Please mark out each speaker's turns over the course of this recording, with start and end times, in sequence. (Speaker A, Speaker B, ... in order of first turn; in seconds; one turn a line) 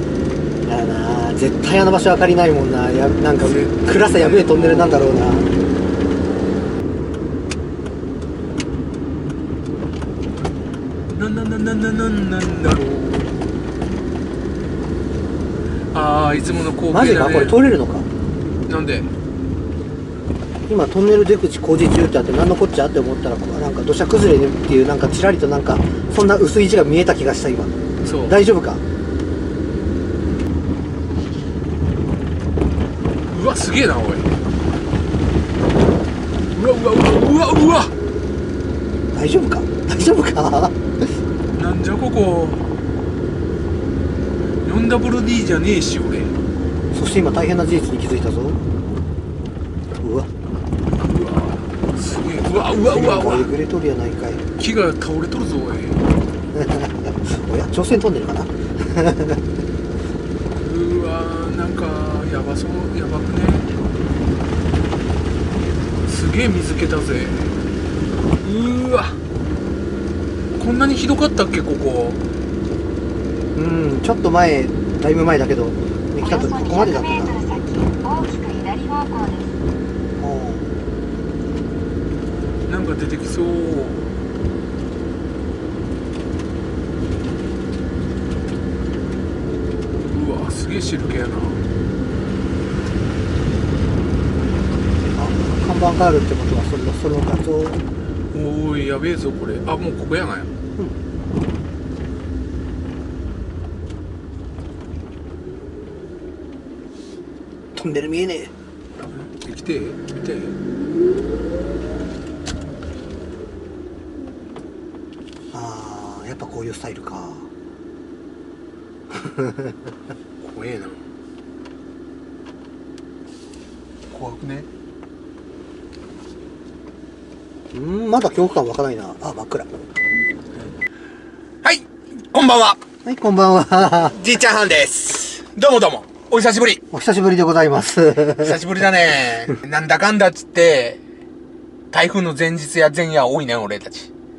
Speaker A: 0.7-5.5
Speaker B: 3.4-5.2
Speaker B: 11.2-13.3
Speaker B: 15.9-17.6
Speaker A: 16.9-18.1
Speaker B: 18.7-19.1
Speaker A: 20.7-28.8
Speaker B: 28.0-28.4
Speaker B: 33.3-34.3
Speaker B: 36.5-38.0
Speaker A: 39.1-40.8
Speaker B: 41.6-42.6
Speaker B: 44.6-46.4
Speaker A: 46.9-48.6
Speaker A: 50.0-50.3
Speaker B: 50.9-53.5
Speaker A: 52.5-54.5
Speaker B: 54.6-56.0
Speaker A: 56.5-59.4
Speaker B: 60.5-63.7
Speaker B: 66.0-67.6
Speaker B: 68.4-69.2
Speaker B: 70.6-72.2
Speaker A: 73.5-77.4
Speaker C: 76.2-79.5
Speaker A: 80.2-80.7
Speaker B: 82.7-84.1
Speaker B: 90.1-91.6
Speaker A: 95.1-97.8
Speaker B: 98.3-100.5
Speaker A: 107.8-108.5
Speaker B: 109.0-110.6
Speaker A: 115.5-117.5
Speaker A: 119.1-119.9
Speaker B: 120.4-121.0
Speaker B: 124.1-124.7
Speaker A: 127.7-129.7
Speaker B: 131.6-132.8
Speaker A: 133.1-134.2
Speaker B: 134.0-136.8
Speaker A: 136.9-138.6
Speaker B: 138.4-141.0
Speaker B: 141.9-144.1